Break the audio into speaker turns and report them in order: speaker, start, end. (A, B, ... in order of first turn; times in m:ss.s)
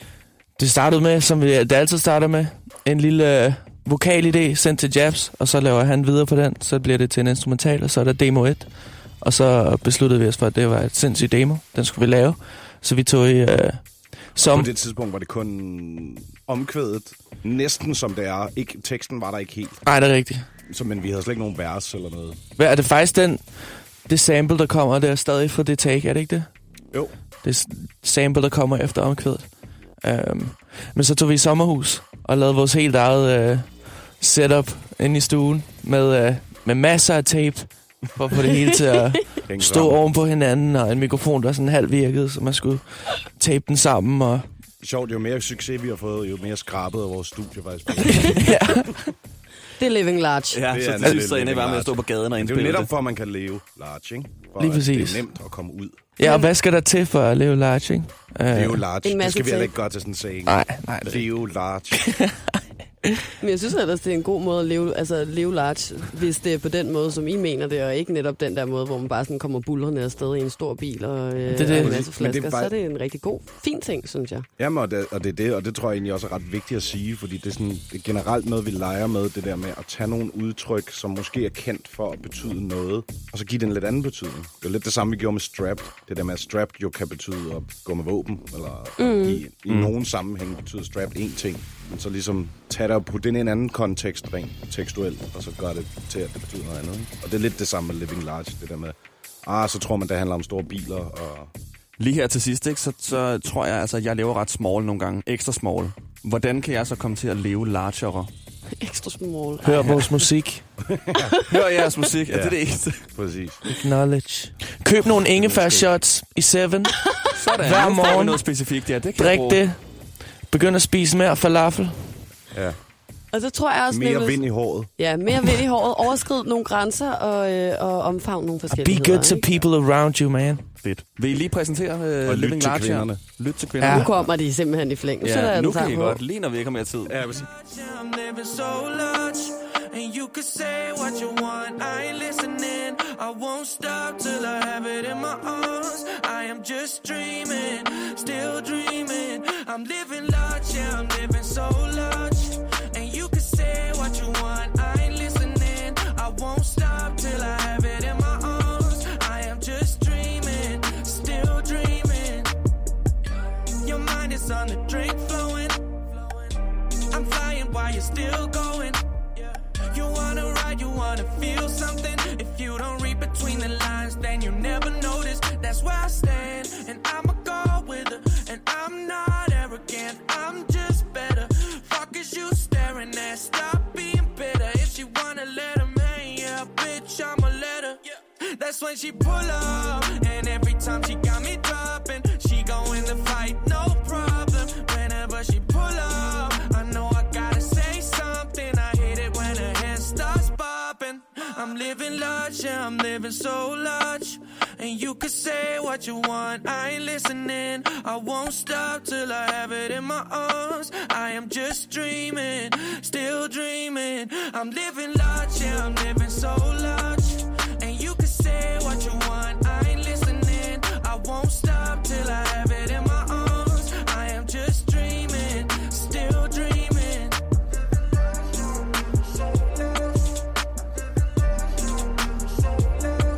0:00.6-0:08.7 A
0:09.2-0:13.8 A
0:14.3-0:14.7 A
0:14.4-0:19.8 B
0:19.8-0:20.4 A
0:20.7-0:22.4 B
0:22.6-0:26.5 A
0:27.4-0:29.5 A
0:30.0-0:44.5 A
0:39.4-0:40.0 B
0:44.8-0:49.0 B
0:48.2-0:49.0 A
0:49.8-0:50.6 C
0:50.5-0:52.9 D
0:50.7-0:56.1 B
0:54.6-0:55.2 A
0:56.2-0:58.8 A
0:56.2-0:56.5 C
0:58.5-1:02.1 B
0:59.0-0:59.7 C
1:00.5-1:01.2 A
1:02.0-1:03.2 A
1:03.4-1:14.5 C
1:11.5-1:12.0 A
1:11.7-1:12.7 B
1:14.6-1:41.5 B
1:29.0-1:29.4 C
1:42.0-1:48.3 D
1:48.8-1:50.1 C
1:49.6-1:50.6 A
1:50.8-1:51.4 B
1:51.2-1:51.5 C
1:51.4-1:53.0 D
1:52.3-1:53.6 B
1:53.6-1:58.4 A
1:55.3-1:55.9 B
1:57.3-1:59.6 D
1:59.2-1:59.8 A
2:00.5-2:02.2 A
2:02.5-2:02.8 B
2:03.3-2:04.4 C
2:03.9-2:04.9 B
2:05.0-2:09.5 C
2:08.7-2:10.7 A
2:10.8-2:14.2 D
2:12.2-2:13.2 B
2:13.8-2:14.1 A
2:13.8-2:16.2 C
2:15.2-2:17.2 D
2:17.1-2:17.5 B
2:17.3-2:42.5 E
2:43.8-2:46.6 E
2:47.1-3:47.4 E